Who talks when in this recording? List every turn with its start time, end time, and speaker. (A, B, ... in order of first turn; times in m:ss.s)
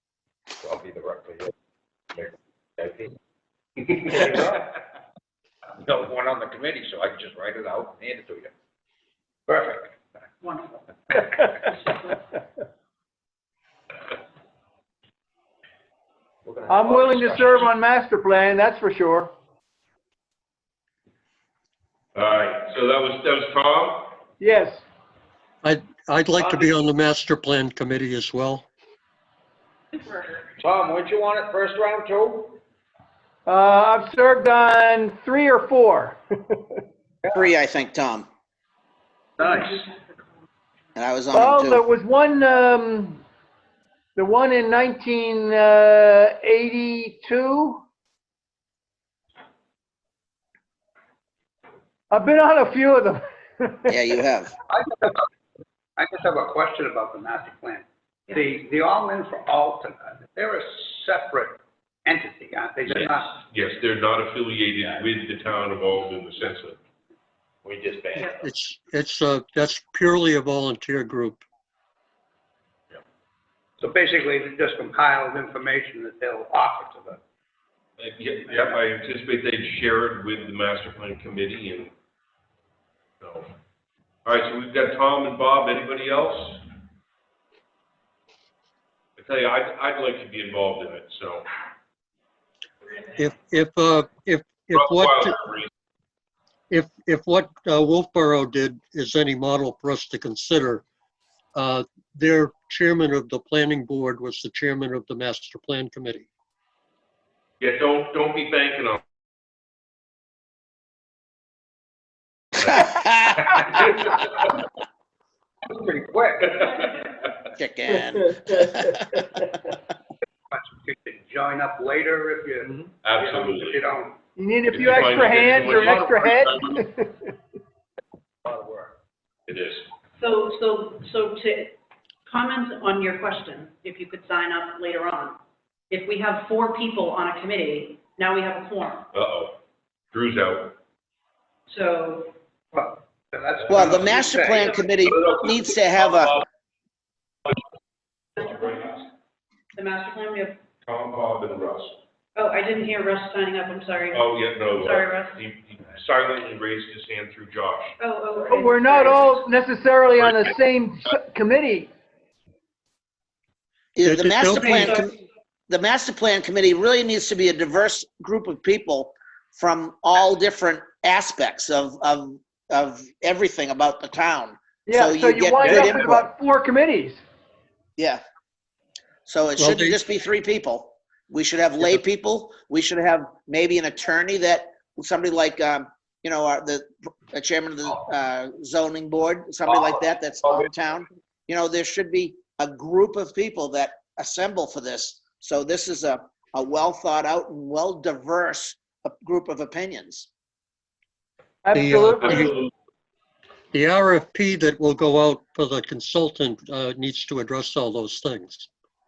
0:00.6-0:01.5 A
0:02.1-0:03.1 A
0:04.1-0:04.4 A
0:04.3-0:04.6 B
0:05.8-0:08.5 A
0:09.5-0:09.9 B
0:10.4-0:12.3 C
0:16.4-0:17.7 A
0:16.7-0:19.3 D
0:22.2-0:24.2 E
0:24.4-0:24.8 D
0:25.6-0:28.6 F
0:26.4-0:26.8 A
0:30.6-0:32.6 A
0:33.5-0:36.7 D
0:37.3-0:38.3 G
0:39.4-0:39.8 B
0:39.4-0:40.3 C
0:41.0-0:41.8 G
0:41.3-0:43.2 D
0:44.2-0:47.8 D
0:52.1-0:54.0 D
0:53.9-0:54.5 G
0:54.7-0:55.3 B
0:56.0-1:03.4 B
1:02.9-1:06.8 E
1:07.6-1:08.3 A
1:08.4-1:11.4 F
1:13.8-1:17.2 B
1:18.0-1:21.9 E
1:23.2-1:23.5 E
1:24.2-1:26.6 E
1:29.2-1:31.5 E
1:33.2-1:35.4 F
1:34.8-1:35.7 E
1:36.7-1:40.8 F
1:41.6-1:46.3 F
1:47.6-1:49.0 E
1:52.7-1:53.5 G
1:55.7-1:56.6 B
1:57.6-1:59.2 G
2:00.5-2:04.2 B
2:03.0-2:03.8 E
2:04.4-2:07.2 D
2:04.7-2:06.8 E
2:08.4-2:08.9 A
2:09.5-2:09.8 E
2:10.2-2:19.1 C
2:19.1-2:19.5 E
2:20.1-2:20.8 E
2:21.7-2:22.3 C
2:22.7-2:24.8 B
2:23.7-2:26.4 G
2:28.4-2:29.0 E
2:29.8-2:30.6 C
2:30.8-2:32.0 E
2:32.4-2:35.4 C
2:34.1-2:38.0 E
2:38.0-2:39.4 C
2:38.5-2:41.9 D
2:44.0-2:45.1 G
2:44.0-2:45.1 F
2:44.6-2:45.2 C
2:45.7-2:56.3 G
2:54.9-2:57.2 D
2:59.3-3:20.3 G
2:59.6-3:00.0 F
3:21.6-3:22.5 D
3:21.7-3:22.6 F
3:22.2-3:22.7 E
3:23.7-3:28.7 F